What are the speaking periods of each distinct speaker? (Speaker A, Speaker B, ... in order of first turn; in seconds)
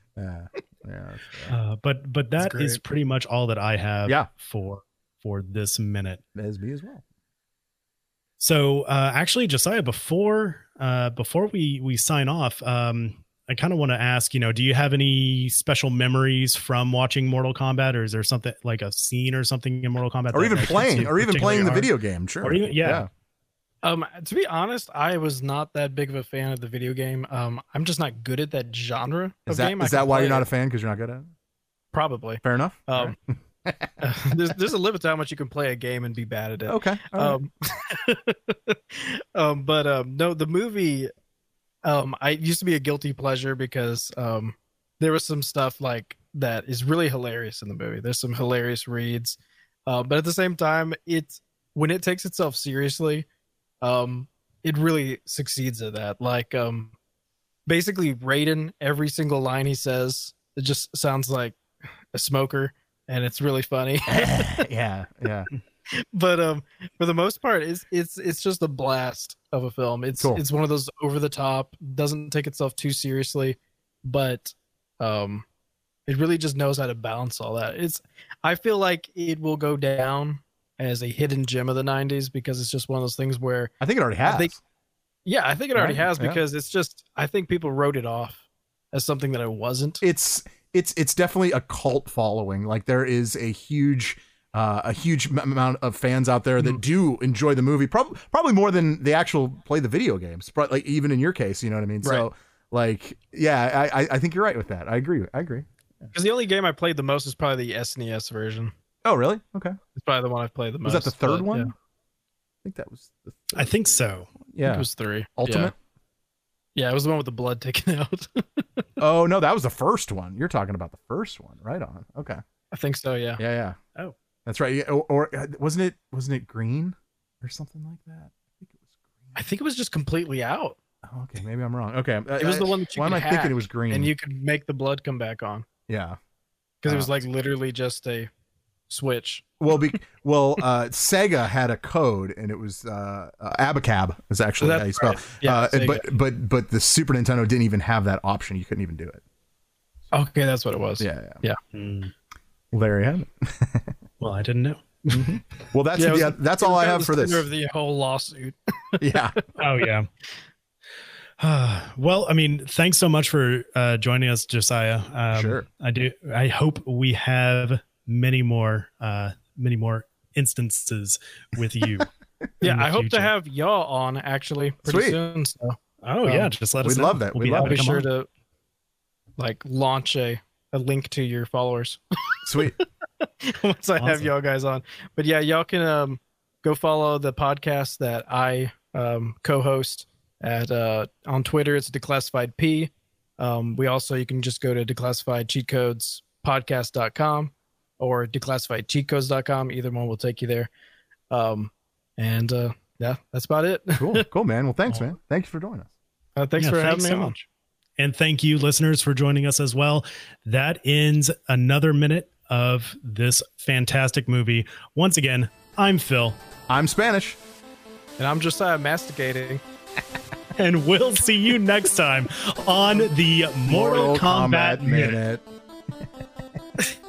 Speaker A: 0.2-1.5, 6.3-7.0, 20.3-23.1, 29.5-31.3, 32.4-33.9, 36.6-37.4, 64.1-65.5, 83.8-84.6, 85.7-86.4, 90.0-105.7, 109.0-109.8, 110.8-111.7, 112.6-115.7, 119.0-122.4, 123.4-123.8, 124.5-129.3, 131.1-134.1, 135.9-136.2, 136.9-137.2, 139.6-149.2, 151.0-151.4, 152.7-153.9, 155.1-157.5, 159.0-159.4, 165.3-165.6, 174.8-175.2, 176.8-177.8, 182.4-182.8, 203.9-205.9, 216.7-217.4, 223.7-225.4
Speaker B: 1.5-6.2, 8.4-23.1, 113.5-114.3, 151.7-152.1, 154.2-155.3, 159.6-160.1, 161.4-172.1, 172.6-173.3, 176.0-178.1, 184.0-184.3, 206.6-207.3, 208.0-216.4, 220.6-225.2
Speaker C: 2.4-2.8, 23.8-30.5, 31.9-33.1, 34.0-41.1, 41.8-53.2, 53.8-56.9, 57.7-61.6, 62.1-64.6, 66.0-75.4, 76.1-84.5, 85.2-88.4, 88.9-90.0, 102.0-102.3, 106.1-108.7, 109.9-111.7, 114.6-115.7, 116.8-118.8, 122.7-123.4, 129.3-130.8, 132.4-135.6, 136.8-138.3, 138.9-139.4, 144.6-146.1, 150.1-151.6, 155.9-159.3, 172.6-176.5, 177.6-178.3, 179.4-182.0, 183.4-200.7, 201.3-204.2, 206.3-207.4, 218.2-219.6